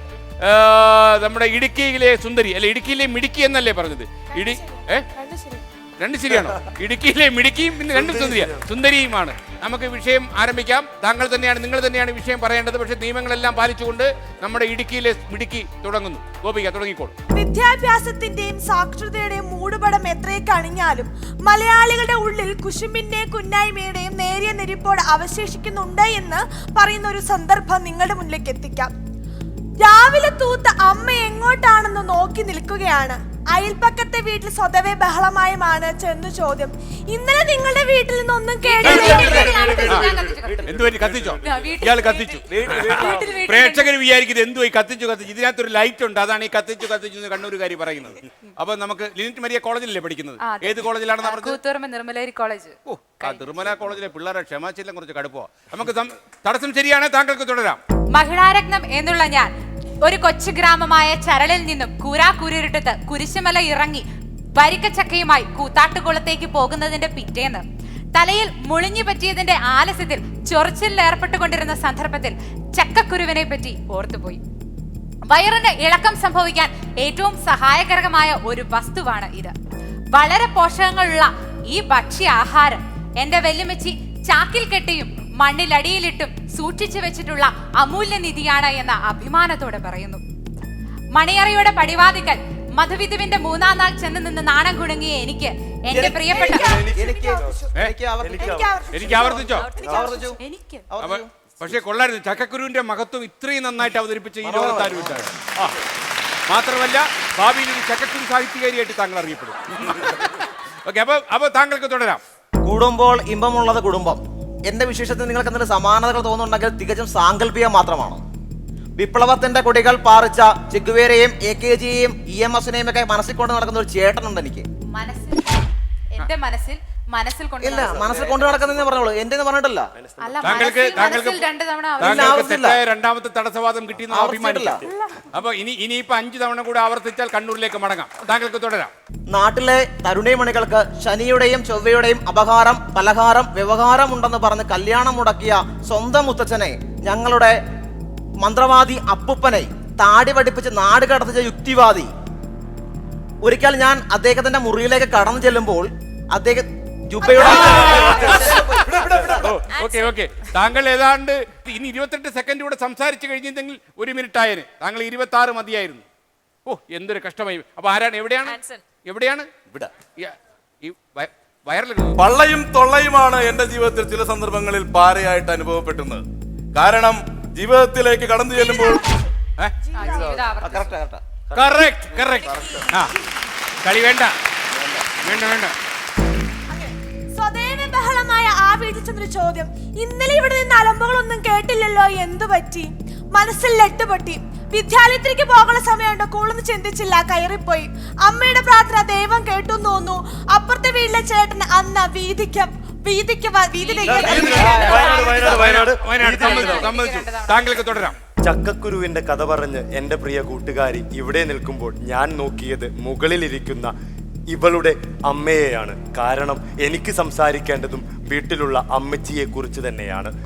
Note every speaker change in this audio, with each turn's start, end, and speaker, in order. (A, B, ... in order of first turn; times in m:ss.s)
0:00.4-0:05.1 A
0:04.3-0:05.6 B
0:06.0-0:17.2 A
0:06.3-0:06.6 C
0:07.9-0:08.7 C
0:17.3-0:28.9 B
0:29.8-0:39.9 B
0:38.6-0:40.7 D
0:38.8-0:39.3 A
0:39.0-0:41.5 C
0:40.7-0:51.6 A
0:41.4-0:43.9 D
0:42.7-0:43.3 C
0:50.4-0:53.5 D
0:52.9-0:57.8 A
0:58.1-0:59.5 D
1:00.0-1:04.0 D
1:04.6-1:07.6 D
1:08.2-1:14.4 D
1:15.3-1:19.5 D
1:20.1-1:30.2 D
1:31.1-1:36.8 D
1:35.9-1:38.5 E
1:36.3-1:37.7 B
1:36.3-1:37.7 C
1:38.2-1:38.9 C
1:38.3-1:40.1 B
1:38.9-1:39.7 A
1:39.1-1:40.4 E
1:39.7-1:40.9 D
1:40.9-1:41.3 E
1:41.0-1:45.8 A
1:44.4-1:45.2 E
1:46.5-1:52.2 A
1:52.6-1:58.2 E
1:59.0-2:04.7 E
2:04.9-2:08.1 D
2:07.6-2:09.9 E
2:07.7-2:09.2 C
2:10.0-2:11.2 C
2:10.2-2:12.5 D
2:10.4-2:11.4 A
2:12.0-2:18.9 A
2:12.0-2:12.8 E
2:14.1-2:14.9 E
2:19.3-2:27.6 E
2:28.4-2:32.1 E
2:33.4-2:38.7 E
2:37.3-2:46.0 A
2:46.7-2:49.5 A
2:48.5-2:48.8 D
2:50.2-2:52.2 A
2:52.2-2:59.2 F
2:58.6-2:59.3 B
2:59.8-3:00.5 B
2:59.9-3:01.0 D
3:00.3-3:01.2 E
3:01.5-3:03.1 A
3:03.8-3:04.3 A
3:04.7-3:05.0 E
3:05.2-3:05.8 A
3:06.7-3:24.6 B
3:23.8-3:27.8 D
3:24.1-3:27.0 C
3:24.1-3:28.2 A
3:24.3-3:25.2 E
3:28.4-3:33.9 C
3:34.5-3:40.3 C